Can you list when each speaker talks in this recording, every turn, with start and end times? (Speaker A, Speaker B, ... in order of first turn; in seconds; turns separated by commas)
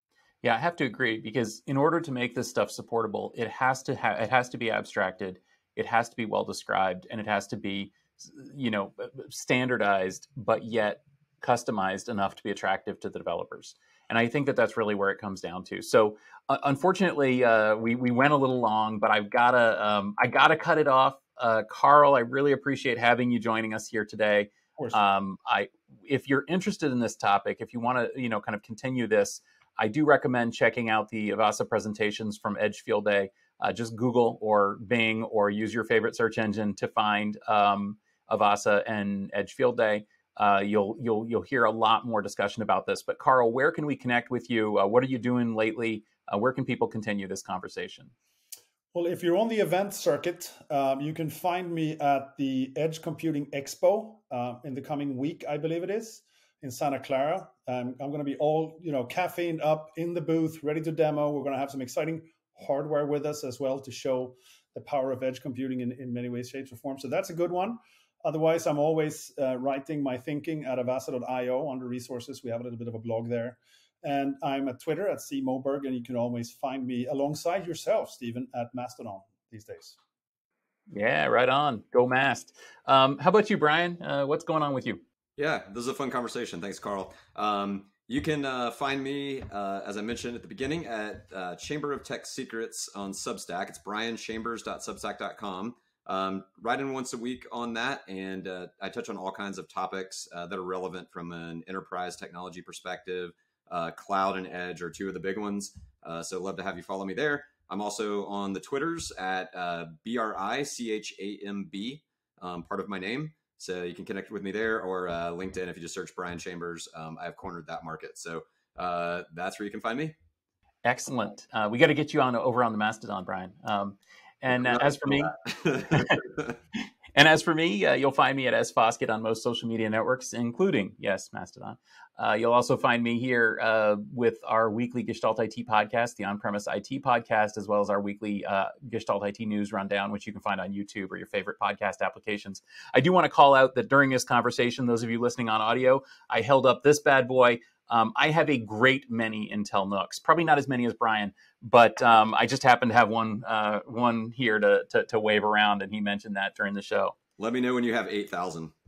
Speaker A: 0.4-48.1, Speaker B: 48.9-80.0, Speaker A: 80.9-85.0, Speaker C: 85.4-120.2, Speaker A: 120.8-125.3, Speaker C: 124.5-126.5, Speaker A: 125.9-126.2, Speaker A: 127.2-157.2, Speaker C: 157.4-158.7